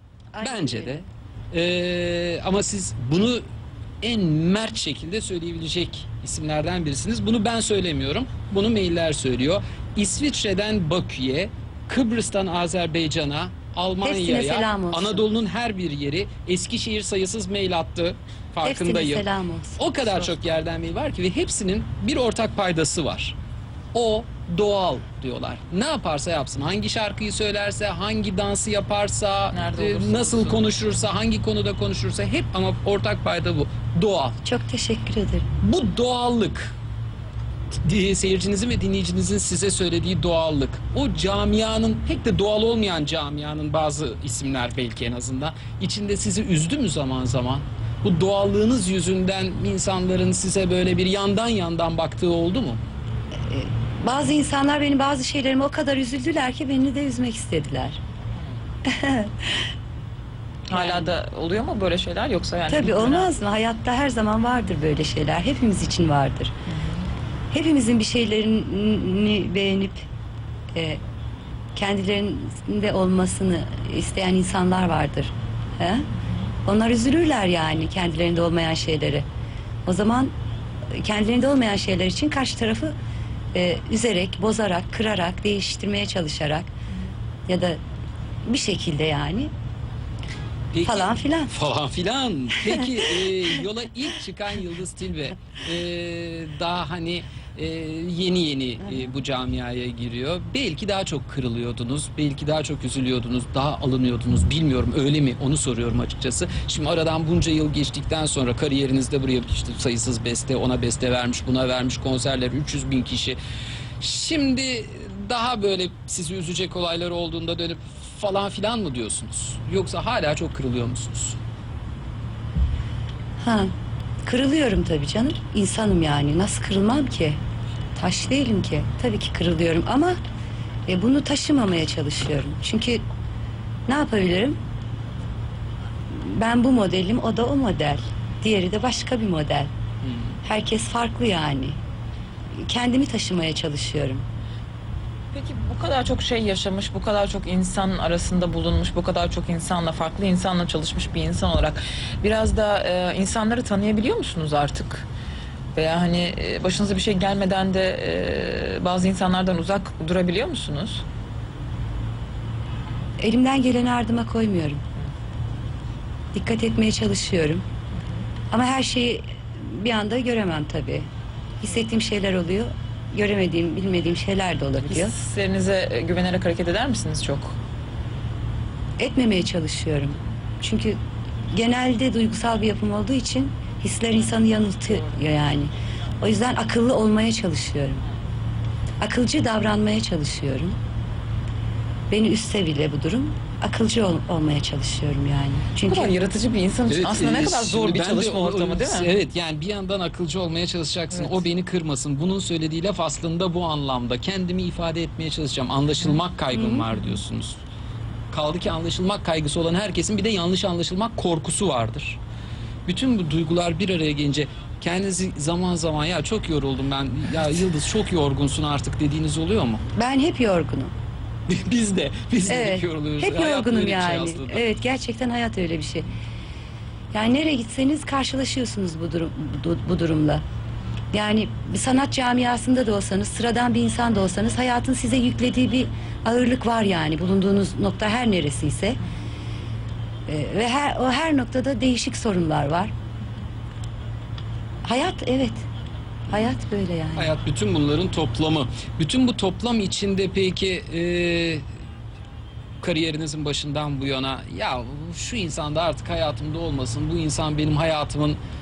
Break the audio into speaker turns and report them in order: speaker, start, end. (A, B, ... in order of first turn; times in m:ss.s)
0:00.3-0:01.0 A
0:00.4-0:03.4 B
0:04.0-0:19.2 B
0:14.0-0:15.3 A
0:18.6-0:20.2 A
0:19.8-0:23.4 B
0:23.9-0:34.4 B
0:29.5-0:30.7 C
0:34.4-0:35.5 A
0:35.6-0:36.7 B
0:37.8-0:52.8 B
0:53.5-0:58.0 A
0:58.8-0:59.7 A
1:00.7-1:03.3 C
1:00.7-1:01.1 A
1:02.7-1:06.5 A
1:07.5-1:10.0 A
1:10.7-1:11.0 A
1:11.7-1:16.0 A
1:16.6-1:19.2 A
1:19.8-1:20.3 A
1:20.9-1:22.9 A
1:23.5-1:26.7 A
1:27.5-1:27.8 A
1:28.4-1:29.5 A
1:30.7-1:53.4 B
1:30.8-1:31.5 A
1:54.0-2:01.4 B
2:03.4-2:03.7 A
2:04.2-2:07.4 A
2:07.9-2:10.2 A
2:10.9-2:13.0 A
2:13.9-2:14.6 A
2:16.1-2:19.7 A
2:20.1-2:20.3 B
2:20.4-2:21.8 A
2:22.5-2:24.2 A
2:25.3-2:35.1 C
2:35.7-2:41.0 C
2:43.2-2:44.8 A
2:46.3-2:47.6 A
2:48.5-2:51.1 A
2:51.6-2:55.1 A
2:54.9-2:57.6 C
2:59.0-3:08.0 A
3:09.0-3:10.8 A
3:12.1-3:16.2 A
3:15.9-3:19.2 C
3:16.9-3:27.6 B
3:21.1-3:21.4 C
3:26.5-3:26.9 A
3:28.3-3:32.2 B
3:32.8-3:39.8 B
3:40.0-3:40.9 A
3:41.5-3:44.6 B
3:42.5-3:46.1 A
3:47.1-3:50.4 A
3:51.1-3:59.0 A
4:00.3-4:02.9 A
4:04.8-4:05.6 A
4:06.3-4:07.3 A
4:07.2-4:11.7 B
4:12.8-4:18.4 B